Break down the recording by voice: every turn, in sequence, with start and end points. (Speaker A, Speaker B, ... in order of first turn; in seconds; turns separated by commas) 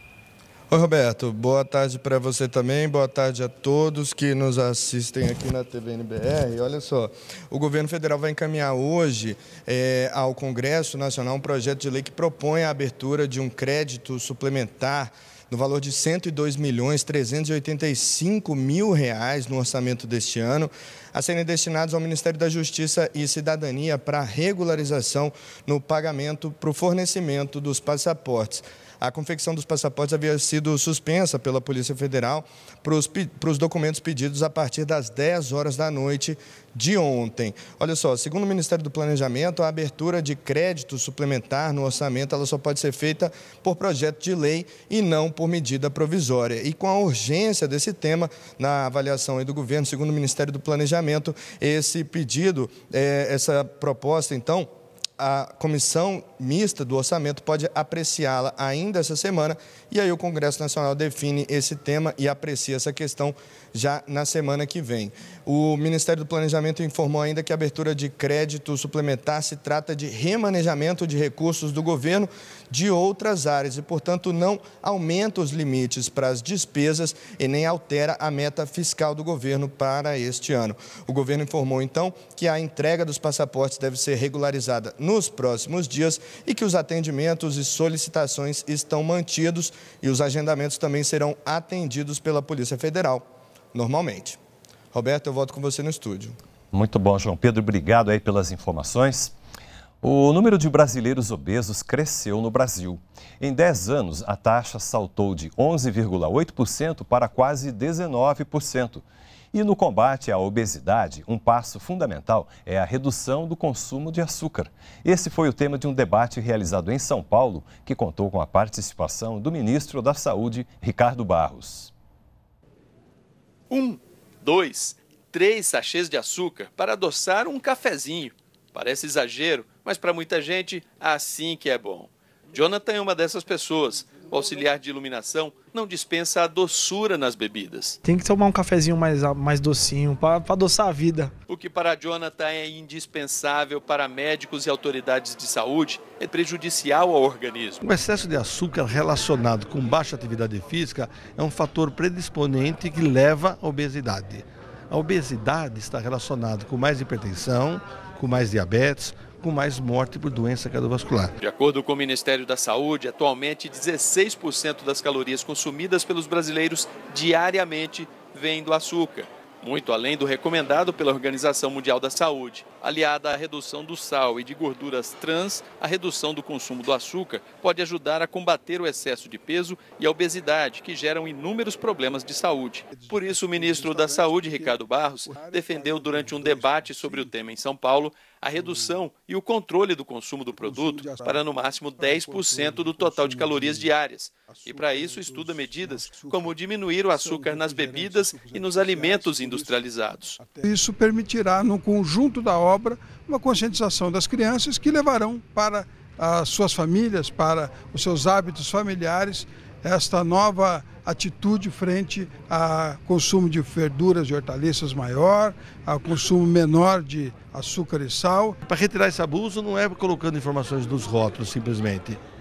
Speaker A: 0.7-94.4, Speaker A: 94.9-96.4, Speaker B: 96.7-99.3, Speaker B: 100.0-121.9, Speaker C: 123.7-138.0, Speaker D: 138.0-141.3, Speaker C: 141.5-147.8, Speaker E: 147.8-161.3, Speaker C: 161.4-200.4, Speaker F: 182.9-187.3, Speaker F: 188.6-189.0, Speaker F: 190.6-191.4, Speaker F: 192.0-193.9, Speaker F: 194.5-196.5, Speaker F: 197.1-199.8, Speaker F: 200.4-218.6, Speaker E: 218.7-222.2